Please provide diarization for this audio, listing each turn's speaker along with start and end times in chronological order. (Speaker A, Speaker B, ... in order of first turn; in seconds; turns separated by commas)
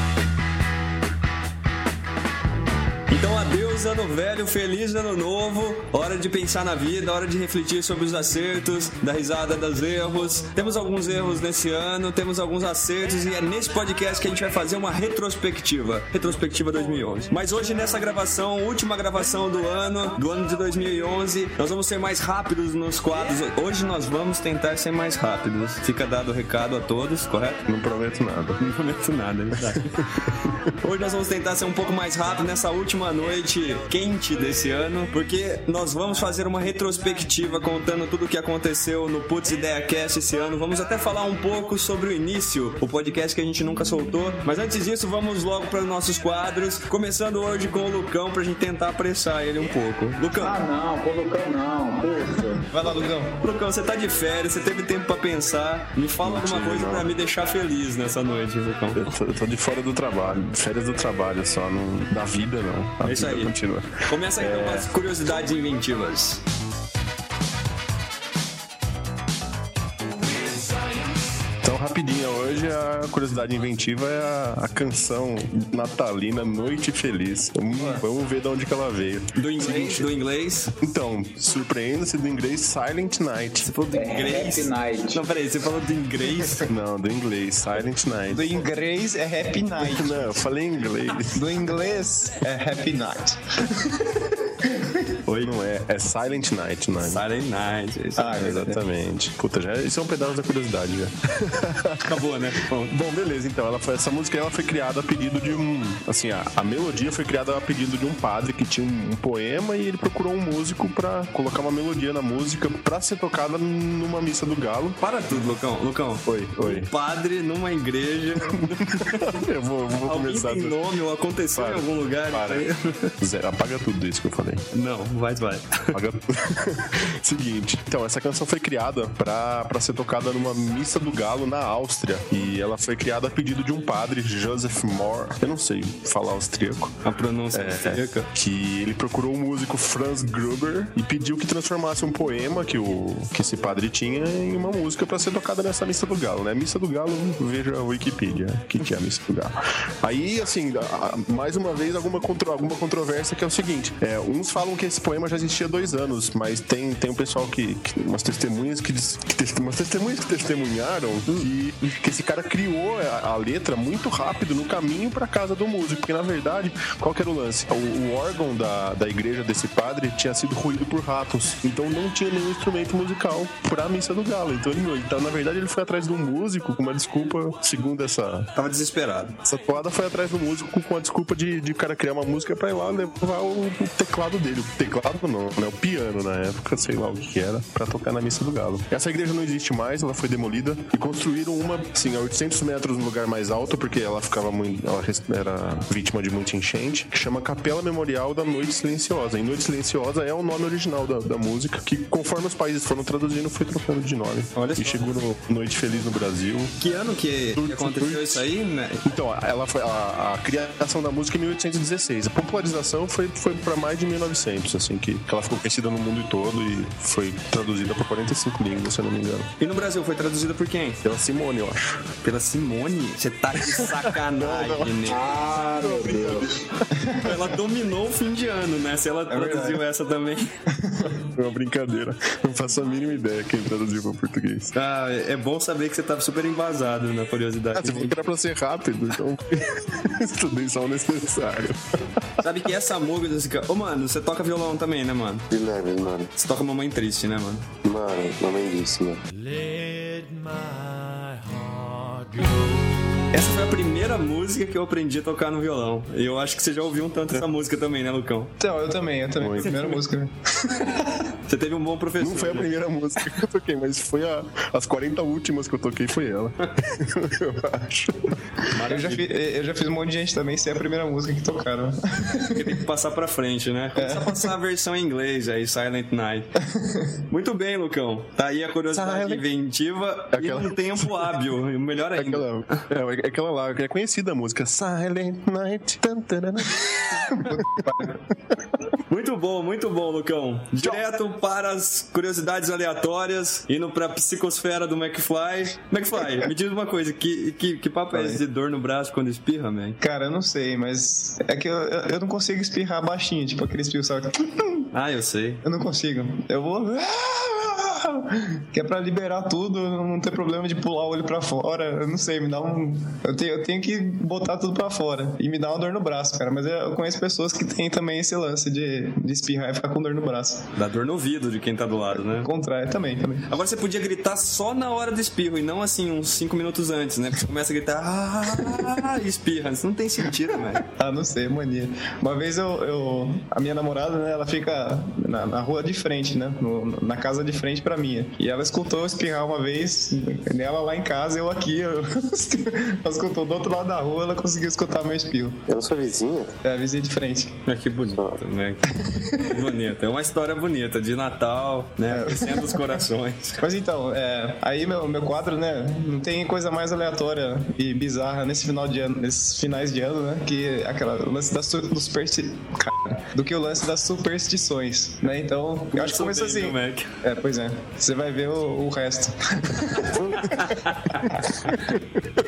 Speaker A: 3.1-27.6, Speaker B: 27.6-28.6, Speaker A: 28.6-30.0, Speaker B: 30.3-30.5, Speaker A: 30.8-50.6, Speaker C: 50.4-52.7, Speaker D: 52.6-53.4, Speaker A: 53.4-59.1, Speaker B: 56.2-57.1, Speaker B: 59.0-64.9, Speaker A: 63.0-63.5, Speaker A: 64.1-66.4, Speaker B: 71.6-80.1, Speaker D: 77.7-78.0, Speaker A: 79.3-80.7, Speaker B: 80.8-83.7, Speaker A: 83.6-86.7, Speaker C: 83.9-85.3, Speaker B: 86.7-88.5, Speaker D: 88.3-90.4, Speaker B: 89.8-91.5, Speaker D: 91.3-95.1, Speaker A: 95.2-95.5, Speaker B: 95.4-97.2, Speaker A: 97.0-98.6, Speaker D: 98.2-98.8, Speaker B: 98.4-102.2, Speaker A: 102.0-102.9, Speaker B: 102.9-115.0, Speaker A: 115.0-119.4, Speaker B: 116.2-116.9, Speaker B: 118.5-120.8, Speaker A: 120.0-123.1, Speaker B: 121.5-122.7, Speaker B: 123.2-124.6, Speaker A: 124.7-125.9, Speaker B: 125.9-136.9, Speaker A: 137.0-138.3, Speaker B: 137.5-178.5, Speaker A: 178.5-179.3, Speaker B: 179.4-206.8, Speaker A: 206.8-209.1, Speaker B: 207.6-208.4, Speaker B: 209.0-219.5, Speaker A: 219.6-221.0, Speaker B: 221.0-222.1, Speaker A: 222.2-225.2, Speaker B: 223.6-227.1, Speaker C: 225.1-226.6, Speaker A: 227.2-230.5, Speaker D: 229.3-229.8, Speaker D: 230.7-231.2, Speaker B: 231.3-234.7, Speaker A: 234.7-238.2, Speaker B: 237.8-242.0, Speaker A: 242.4-245.4, Speaker E: 245.5-246.3, Speaker A: 246.3-247.7, Speaker E: 247.8-249.2, Speaker F: 249.3-253.1, Speaker A: 253.3-258.5, Speaker D: 258.6-261.1, Speaker B: 259.4-259.9, Speaker A: 261.5-262.7, Speaker B: 262.2-268.4, Speaker A: 268.7-269.2, Speaker D: 268.9-272.8, Speaker A: 272.5-276.5, Speaker D: 273.9-274.5, Speaker D: 276.6-277.1, Speaker A: 277.3-282.8, Speaker B: 278.9-279.4, Speaker B: 280.3-281.3, Speaker B: 282.1-288.0, Speaker D: 287.5-288.1, Speaker A: 289.1-300.0, Speaker D: 298.1-298.4, Speaker D: 300.0-304.9, Speaker A: 304.9-305.6, Speaker D: 305.6-320.7, Speaker A: 320.8-322.5, Speaker D: 322.1-323.5, Speaker A: 323.5-330.8, Speaker D: 330.9-345.6, Speaker E: 345.7-346.5, Speaker D: 346.6-347.6, Speaker A: 347.6-353.6, Speaker D: 348.9-349.6, Speaker D: 352.1-353.0, Speaker D: 353.6-370.7, Speaker A: 365.9-367.1, Speaker A: 370.3-371.4